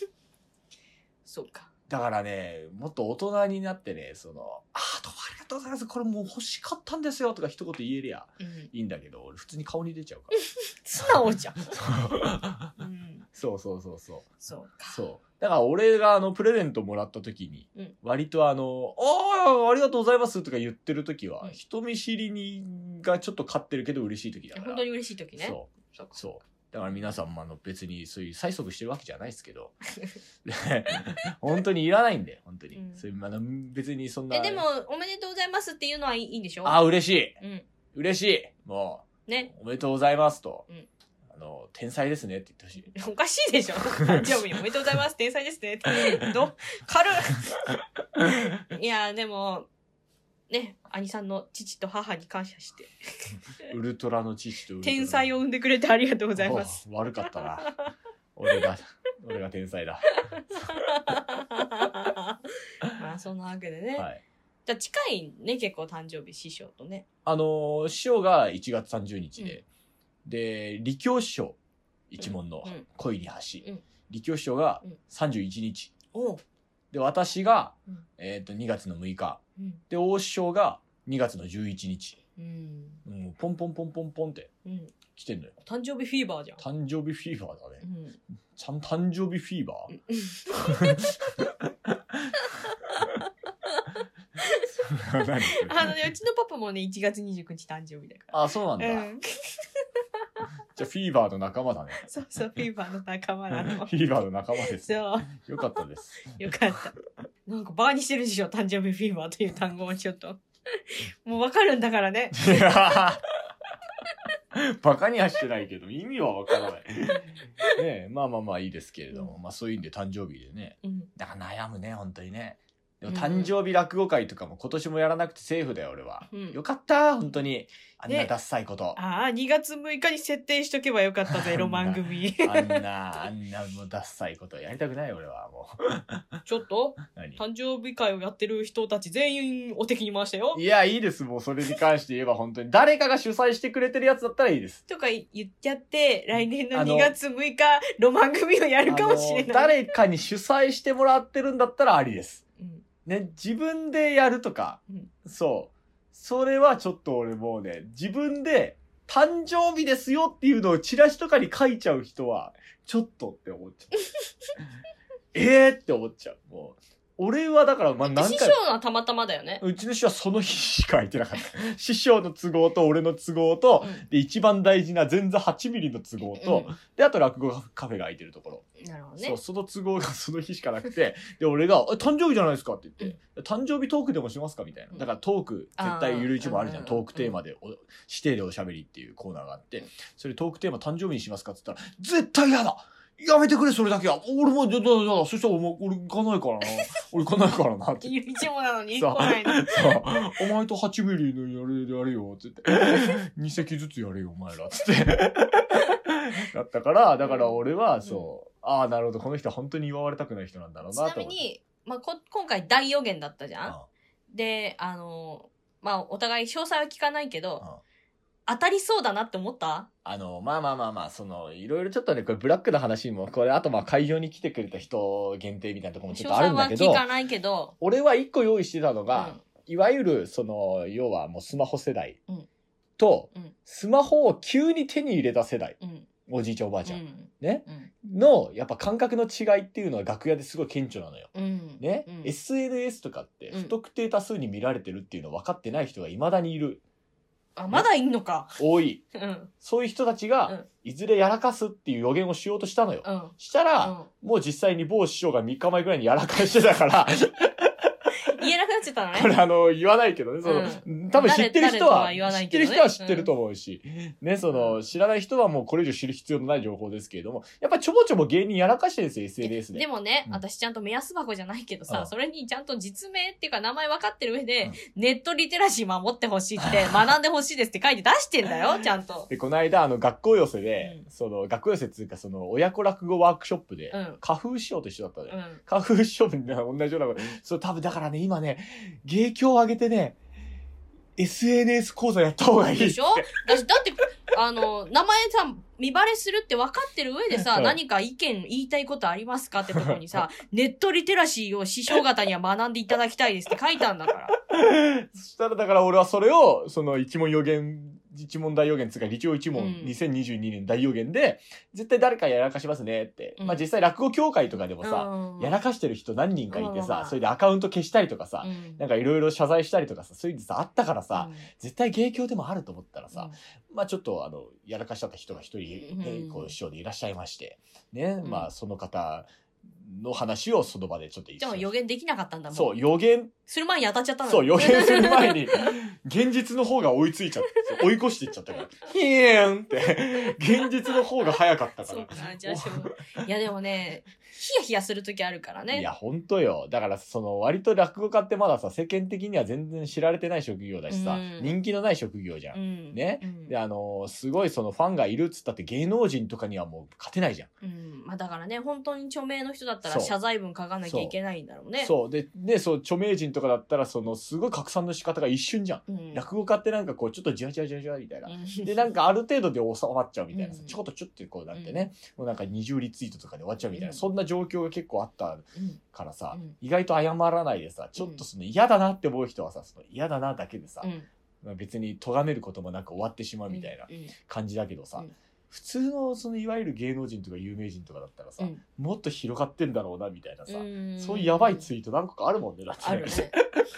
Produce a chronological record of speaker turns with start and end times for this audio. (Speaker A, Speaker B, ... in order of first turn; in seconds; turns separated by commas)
Speaker A: 1.2-1.7, Speaker B: 1.9-10.4, Speaker A: 8.4-8.7, Speaker A: 10.4-11.8, Speaker B: 11.7-12.7, Speaker A: 12.8-13.3, Speaker B: 13.3-14.3, Speaker A: 14.4-15.0, Speaker B: 14.9-24.8, Speaker A: 24.5-26.2, Speaker B: 25.4-29.8, Speaker B: 30.4-34.6, Speaker A: 32.7-33.0, Speaker A: 34.3-36.8, Speaker B: 36.6-37.4, Speaker A: 37.4-37.6, Speaker B: 37.9-40.6, Speaker B: 41.3-42.9, Speaker A: 42.9-47.5, Speaker B: 44.0-44.3, Speaker A: 48.7-49.7, Speaker A: 50.5-53.2, Speaker B: 53.6-55.3, Speaker A: 54.8-56.8, Speaker B: 56.4-57.8, Speaker B: 58.4-60.7, Speaker A: 60.7-64.1, Speaker B: 63.9-64.2, Speaker A: 64.7-67.0, Speaker B: 67.2-69.6, Speaker B: 70.2-71.6, Speaker B: 72.1-75.9, Speaker A: 72.2-72.8, Speaker A: 76.1-76.4, Speaker B: 76.9-82.2, Speaker A: 82.4-83.0, Speaker B: 83.0-84.5, Speaker A: 84.6-84.9, Speaker B: 85.1-85.5, Speaker A: 85.6-86.6, Speaker B: 86.6-87.8, Speaker A: 87.8-88.2, Speaker B: 88.5-89.9, Speaker A: 89.9-91.1, Speaker B: 90.5-92.4, Speaker A: 94.4-94.7, Speaker B: 94.8-95.9, Speaker A: 95.5-99.6, Speaker B: 98.3-99.1, Speaker B: 100.7-102.0, Speaker A: 102.0-103.9, Speaker B: 103.5-106.4, Speaker A: 104.7-105.6, Speaker A: 106.3-106.9, Speaker A: 107.5-112.6, Speaker B: 112.3-113.2, Speaker B: 114.5-129.0, Speaker A: 120.8-121.1, Speaker A: 123.1-123.5, Speaker A: 126.3-126.6, Speaker A: 128.9-132.8, Speaker B: 131.3-136.2, Speaker A: 136.4-140.6, Speaker B: 137.1-137.4, Speaker B: 140.5-144.8, Speaker A: 144.9-149.9, Speaker B: 146.7-147.1, Speaker B: 148.9-152.4, Speaker A: 152.6-152.8, Speaker B: 153.1-164.0, Speaker B: 165.3-168.6, Speaker A: 168.0-169.6, Speaker B: 169.6-178.6, Speaker A: 176.4-176.7, Speaker A: 178.8-179.4, Speaker B: 179.2-198.1, Speaker A: 185.8-187.3, Speaker A: 198.0-200.0, Speaker B: 198.9-211.4, Speaker A: 207.2-208.3, Speaker A: 210.9-213.8, Speaker A: 214.3-217.6, Speaker A: 218.5-219.9, Speaker B: 220.0-227.0, Speaker A: 226.1-227.7, Speaker B: 227.8-232.2, Speaker A: 229.1-229.4, Speaker B: 233.0-246.8, Speaker A: 235.8-236.1, Speaker A: 236.8-237.9, Speaker A: 241.3-242.3, Speaker A: 247.6-248.6, Speaker B: 248.6-249.0, Speaker A: 249.1-249.5, Speaker B: 249.6-257.9, Speaker A: 253.0-254.1, Speaker A: 258.2-259.4, Speaker B: 259.1-270.4, Speaker A: 260.4-263.3, Speaker A: 264.5-264.8, Speaker A: 269.4-279.3, Speaker B: 279.3-290.2, Speaker A: 280.8-281.1, Speaker A: 283.9-284.2, Speaker A: 285.3-285.6, Speaker B: 291.2-293.4, Speaker A: 292.6-304.3, Speaker B: 297.4-297.8, Speaker B: 299.7-300.2, Speaker B: 304.5-331.7, Speaker A: 309.5-309.9, Speaker A: 313.4-313.6, Speaker A: 314.8-315.6, Speaker A: 316.5-317.1, Speaker A: 318.4-318.8, Speaker A: 321.1-321.5, Speaker A: 325.8-326.5, Speaker A: 328.2-328.5, Speaker A: 331.4-332.8, Speaker B: 332.5-333.3, Speaker A: 333.4-335.6, Speaker B: 334.3-342.9, Speaker A: 341.8-345.9, Speaker B: 345.7-357.5, Speaker A: 350.9-351.5, Speaker A: 352.5-353.5, Speaker A: 357.6-361.9, Speaker B: 359.9-360.1, Speaker B: 360.8-361.1, Speaker B: 361.8-380.9, Speaker A: 365.9-366.2, Speaker A: 368.3-368.9, Speaker A: 370.3-370.8, Speaker A: 371.5-371.9, Speaker A: 373.7-374.0, Speaker A: 375.5-375.8, Speaker A: 378.0-378.2, Speaker A: 380.8-381.1, Speaker B: 381.4-393.6, Speaker A: 383.5-384.1, Speaker A: 390.5-391.7, Speaker A: 392.8-393.4